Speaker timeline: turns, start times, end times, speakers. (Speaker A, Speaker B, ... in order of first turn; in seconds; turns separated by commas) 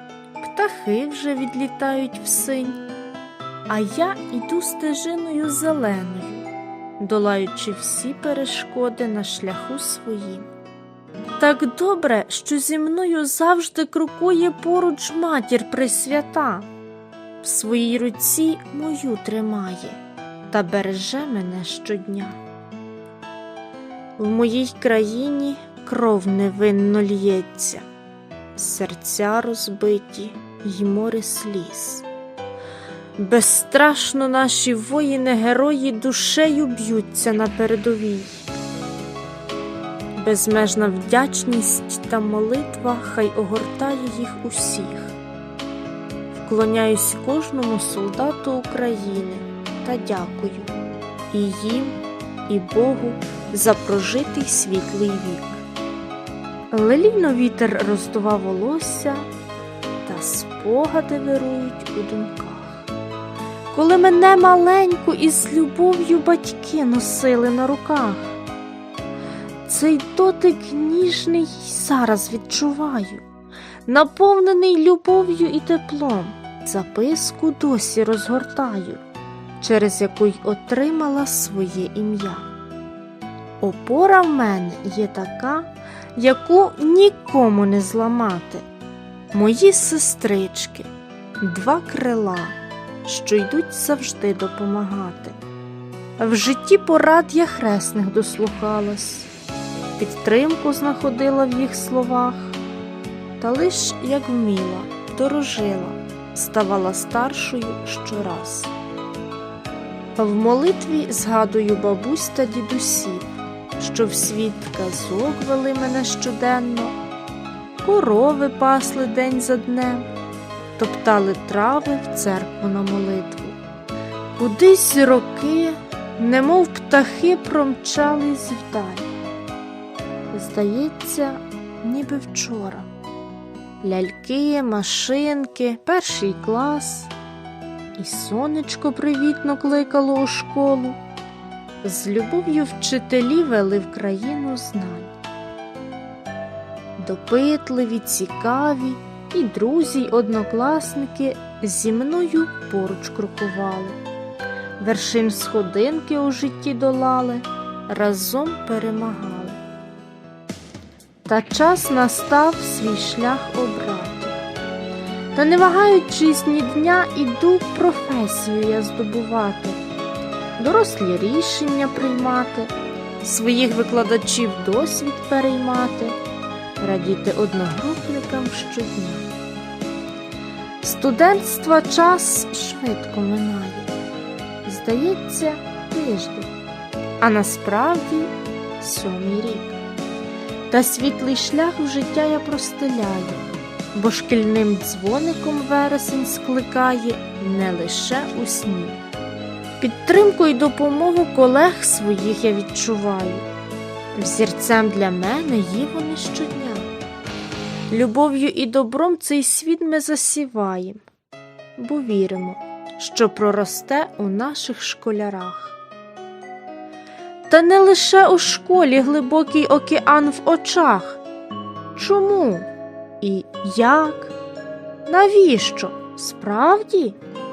Speaker A: 0.4-2.8, Speaker A: 3.7-6.5, Speaker A: 7.0-10.5, Speaker A: 11.4-16.7, Speaker A: 17.4-22.4, Speaker A: 24.2-27.9, Speaker A: 28.5-32.1, Speaker A: 33.2-38.5, Speaker A: 40.2-45.2, Speaker A: 46.3-50.8, Speaker A: 51.3-52.0, Speaker A: 52.5-55.6, Speaker A: 56.7-59.3, Speaker A: 60.0-62.9, Speaker A: 63.7-68.4, Speaker A: 69.7-73.2, Speaker A: 73.9-79.0, Speaker A: 79.6-82.5, Speaker A: 83.6-88.7, Speaker A: 89.3-90.9, Speaker A: 91.4-95.4, Speaker A: 96.2-99.3, Speaker A: 100.0-102.6, Speaker A: 103.4-108.7, Speaker A: 110.2-117.0, Speaker A: 117.8-120.1, Speaker A: 120.8-123.6, Speaker A: 124.4-129.1, Speaker A: 130.3-132.9, Speaker A: 133.8-137.1, Speaker A: 138.0-141.0, Speaker A: 141.8-145.1, Speaker A: 147.0-154.0, Speaker A: 154.8-159.6, Speaker A: 161.2-164.4, Speaker A: 165.3-169.8, Speaker A: 170.6-176.2, Speaker A: 176.8-179.3, Speaker A: 180.8-183.9, Speaker A: 184.7-186.5, Speaker A: 187.2-189.8, Speaker A: 190.7-199.0, Speaker A: 199.8-203.5, Speaker A: 204.2-206.9, Speaker A: 207.9-211.0, Speaker A: 211.8-215.8, Speaker A: 217.5-221.2, Speaker A: 222.0-222.7, Speaker A: 223.2-224.3, Speaker A: 225.1-227.2